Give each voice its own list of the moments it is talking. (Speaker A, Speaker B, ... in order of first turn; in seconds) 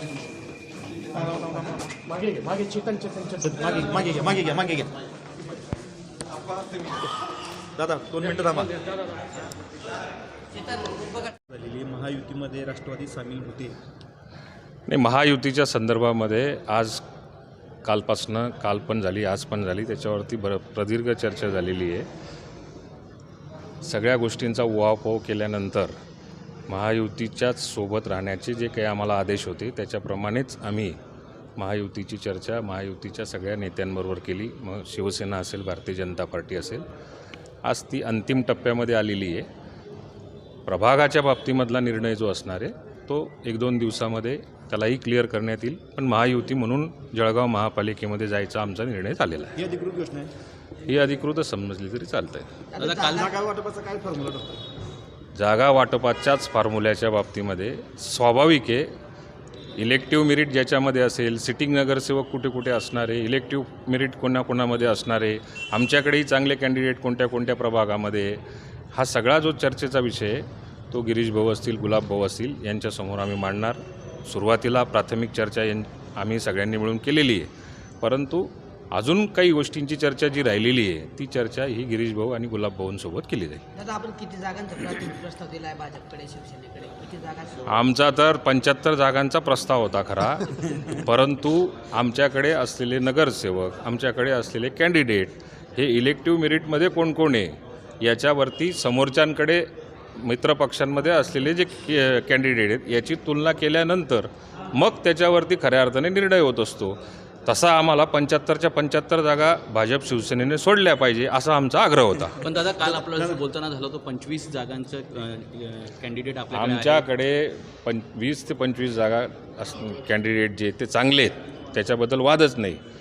Speaker A: 1.1-1.9, 3.2-4.9, 7.8-8.8, 11.5-13.8, 49.5-50.3, 53.0-54.6
Speaker B: 14.9-17.0, 17.8-22.1, 23.8-25.9, 26.7-31.0, 31.6-36.9, 37.6-39.5, 40.6-49.6, 50.9-52.5, 55.3-58.9, 59.8-68.4, 68.9-77.5, 78.0-83.6, 87.7-112.4, 116.5-122.8
Speaker C: 52.7-53.4, 83.7-87.7
Speaker D: 52.8-53.2, 112.4-117.1